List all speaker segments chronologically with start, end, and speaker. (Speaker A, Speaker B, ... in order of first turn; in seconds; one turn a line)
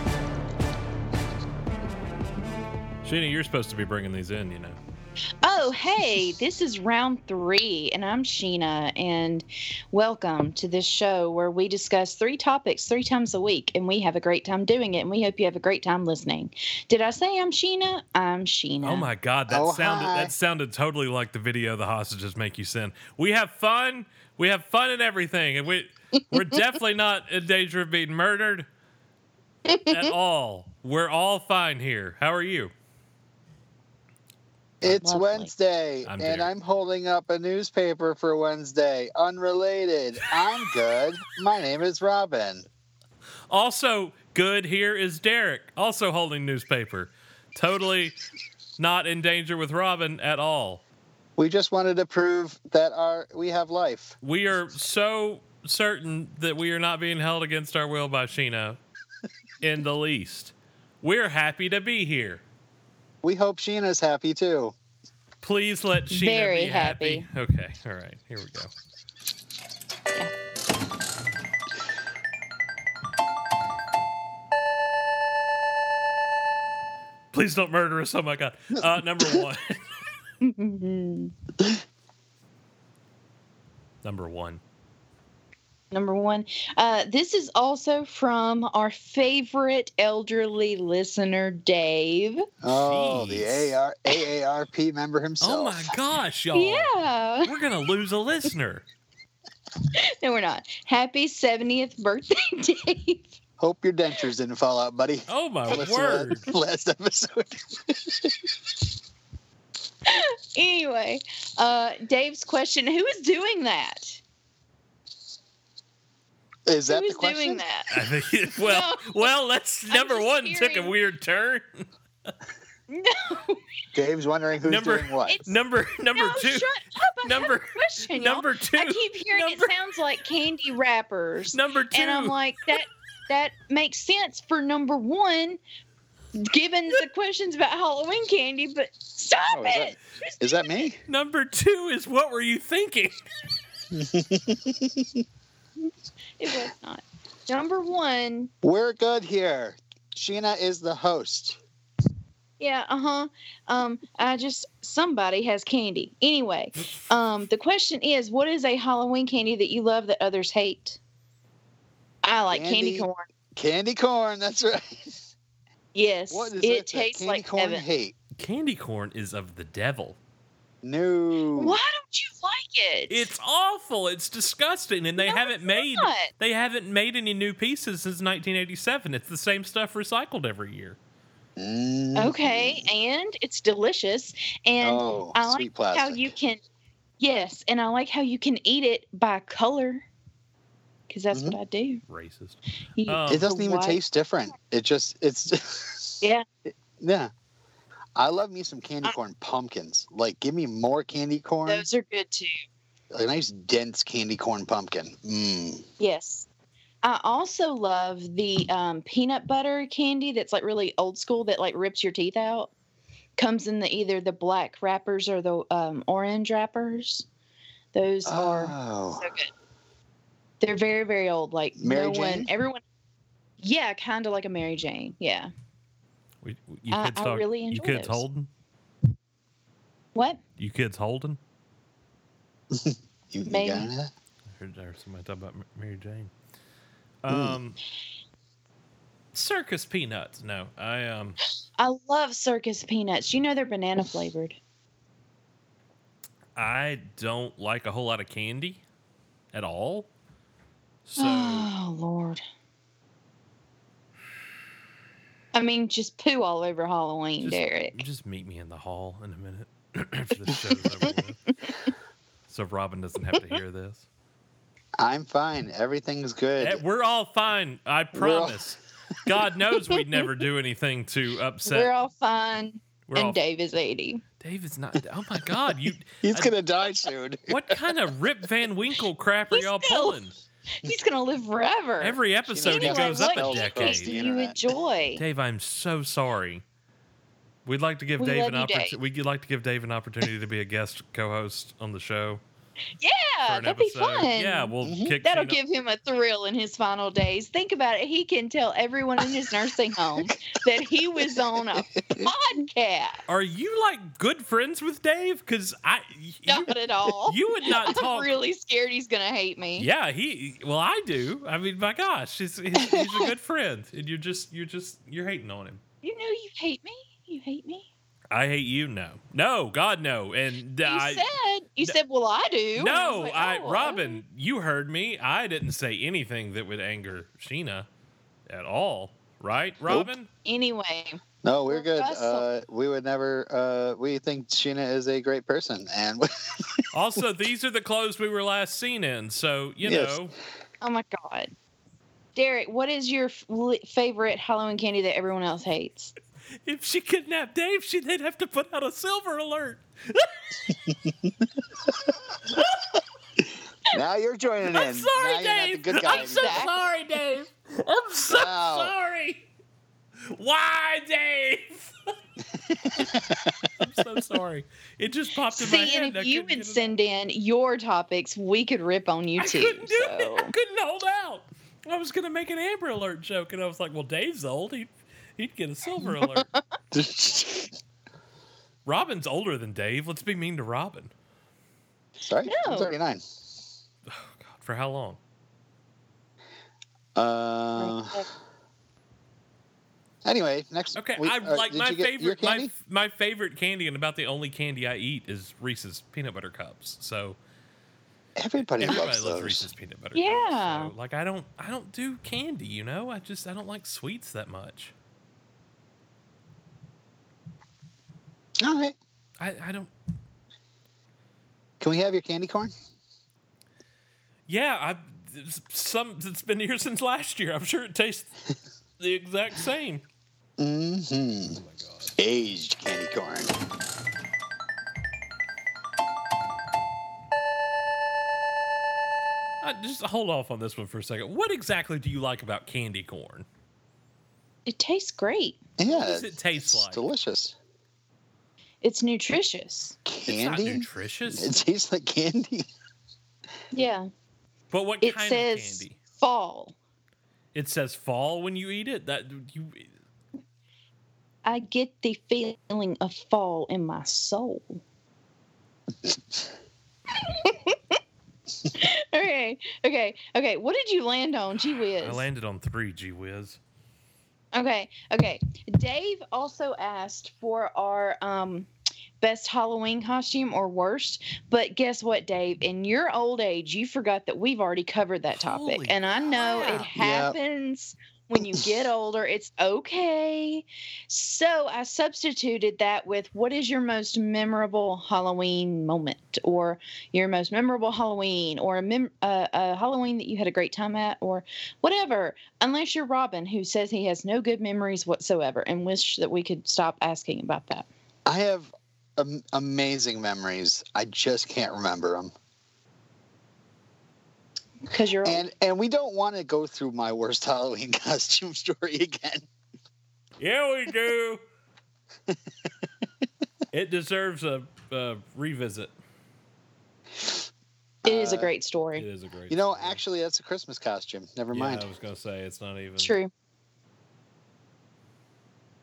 Speaker A: 3.0-4.8
Speaker B: 5.4-19.1
Speaker A: 18.8-28.7
Speaker C: 19.5-20.3
Speaker B: 29.7-30.1
Speaker A: 29.9-32.7
Speaker C: 34.8-42.7
Speaker B: 34.8-35.5
Speaker A: 36.1-36.5
Speaker A: 43.5-48.2
Speaker A: 48.8-50.8
Speaker C: 51.4-54.1
Speaker A: 54.2-58.8
Speaker A: 59.6-62.4
Speaker C: 63.2-64.8
Speaker A: 65.4-68.7
Speaker B: 66.1-67.3
Speaker A: 77.3-79.8
Speaker C: 78.8-79.4
Speaker B: 80.4-81.3
Speaker A: 84.0-84.6
Speaker B: 85.9-92.4
Speaker C: 92.6-95.9
Speaker A: 92.7-93.8
Speaker A: 95.4-96.9
Speaker B: 96.5-97.5
Speaker A: 97.4-98.8
Speaker B: 100.0-103.3
Speaker C: 103.6-108.4
Speaker A: 105.3-106.5
Speaker B: 110.1-114.2
Speaker C: 116.7-117.6
Speaker B: 116.9-117.9
Speaker A: 117.9-121.9
Speaker B: 118.6-119.3
Speaker B: 119.9-121.0
Speaker B: 122.9-123.6
Speaker C: 123.9-125.4
Speaker A: 124.7-126.7
Speaker B: 125.3-125.5
Speaker B: 126.1-135.6
Speaker A: 127.2-129.7
Speaker A: 131.5-132.4
Speaker B: 136.4-140.7
Speaker C: 139.5-141.0
Speaker A: 141.1-143.2
Speaker C: 143.9-145.2
Speaker B: 146.4-148.5
Speaker C: 148.6-151.6
Speaker B: 152.6-161.0
Speaker B: 162.2-163.3
Speaker C: 162.5-165.2
Speaker B: 165.9-167.8
Speaker C: 166.3-168.2
Speaker A: 168.4-170.2
Speaker C: 170.8-171.8
Speaker B: 171.6-173.3
Speaker A: 173.1-181.0
Speaker B: 175.2-176.3
Speaker C: 181.6-182.9
Speaker B: 182.2-186.6
Speaker C: 184.8-186.3
Speaker B: 187.2-190.1
Speaker B: 191.1-192.0
Speaker C: 191.3-191.6
Speaker A: 192.1-193.5
Speaker B: 193.0-194.0
Speaker C: 193.3-196.2
Speaker C: 197.0-197.3
Speaker C: 198.2-201.9
Speaker B: 201.7-202.6
Speaker C: 203.1-205.8
Speaker B: 206.0-206.5
Speaker B: 207.0-212.7
Speaker B: 213.4-217.3
Speaker B: 217.9-219.5
Speaker C: 218.3-219.3
Speaker B: 220.6-222.8
Speaker C: 221.8-222.5
Speaker B: 223.6-225.5
Speaker A: 226.4-228.5
Speaker B: 226.9-228.2
Speaker B: 230.2-230.4
Speaker A: 230.6-231.4
Speaker C: 232.7-234.1
Speaker B: 233.5-233.9
Speaker A: 234.5-236.3
Speaker A: 237.2-237.8
Speaker C: 237.3-237.6
Speaker A: 239.3-241.4
Speaker B: 241.8-244.6
Speaker A: 246.6-248.8
Speaker A: 249.5-250.1
Speaker A: 251.1-251.7
Speaker B: 251.2-252.4
Speaker B: 255.5-258.0
Speaker A: 257.4-261.4
Speaker A: 262.5-264.1
Speaker C: 265.0-266.8
Speaker A: 266.6-271.9
Speaker C: 268.1-268.6
Speaker B: 271.7-274.2
Speaker A: 273.1-273.4
Speaker A: 274.4-276.6
Speaker C: 276.2-277.9
Speaker A: 277.5-280.4
Speaker B: 279.5-280.2
Speaker B: 280.8-285.2
Speaker A: 282.0-284.1
Speaker C: 282.5-284.6
Speaker A: 285.2-286.6
Speaker A: 287.7-292.4
Speaker B: 288.2-288.9
Speaker B: 293.0-303.2
Speaker A: 293.5-295.6
Speaker C: 294.8-295.2
Speaker C: 302.0-302.3
Speaker A: 303.3-308.4
Speaker B: 306.5-309.9
Speaker A: 309.8-315.8
Speaker C: 312.9-313.3
Speaker B: 316.0-317.9
Speaker A: 318.3-321.3
Speaker B: 320.9-324.2
Speaker A: 322.8-327.9
Speaker A: 328.5-330.3
Speaker C: 329.9-330.1
Speaker B: 330.4-332.5
Speaker C: 331.4-336.8
Speaker A: 336.9-340.3
Speaker C: 339.8-340.2
Speaker B: 340.8-341.5
Speaker B: 342.4-346.1
Speaker A: 346.6-350.3
Speaker C: 350.7-351.3
Speaker C: 353.9-356.6
Speaker A: 354.7-359.4
Speaker B: 356.0-356.8
Speaker C: 358.3-358.9
Speaker A: 360.3-361.9
Speaker C: 362.6-363.6
Speaker A: 363.8-367.0
Speaker B: 365.5-370.5
Speaker A: 369.4-376.5
Speaker B: 376.0-376.6
Speaker C: 376.9-377.7
Speaker A: 378.9-381.1
Speaker C: 382.2-383.2
Speaker B: 382.5-382.9
Speaker A: 384.1-385.2
Speaker C: 387.2-388.2
Speaker B: 387.8-388.3
Speaker C: 390.2-392.7
Speaker A: 390.9-397.4
Speaker C: 398.4-399.7
Speaker A: 398.8-404.9
Speaker B: 400.1-400.9
Speaker C: 408.6-408.9
Speaker A: 409.4-409.9
Speaker C: 411.8-412.7
Speaker A: 414.5-418.3
Speaker A: 419.0-420.0
Speaker C: 420.6-421.6
Speaker A: 421.5-422.2
Speaker C: 422.2-423.5
Speaker A: 429.6-433.5
Speaker B: 434.7-435.6
Speaker C: 435.8-437.6
Speaker A: 435.9-437.0
Speaker B: 438.8-440.0
Speaker C: 440.1-442.7
Speaker A: 440.3-441.5
Speaker B: 443.7-444.1
Speaker A: 444.7-446.0
Speaker B: 445.0-446.8
Speaker A: 447.5-449.9
Speaker B: 451.4-454.8
Speaker B: 457.2-458.0
Speaker B: 458.7-462.2
Speaker A: 462.0-463.6
Speaker B: 464.5-468.7
Speaker B: 469.2-497.9
Speaker A: 475.3-476.9
Speaker C: 476.3-477.4
Speaker C: 498.3-502.3
Speaker B: 504.9-505.5
Speaker C: 505.2-509.5
Speaker A: 510.4-511.4
Speaker A: 513.7-515.9
Speaker C: 518.0-518.5
Speaker B: 518.0-519.0
Speaker A: 519.0-520.0
Speaker C: 519.5-521.9
Speaker A: 521.5-523.1
Speaker B: 523.0-523.3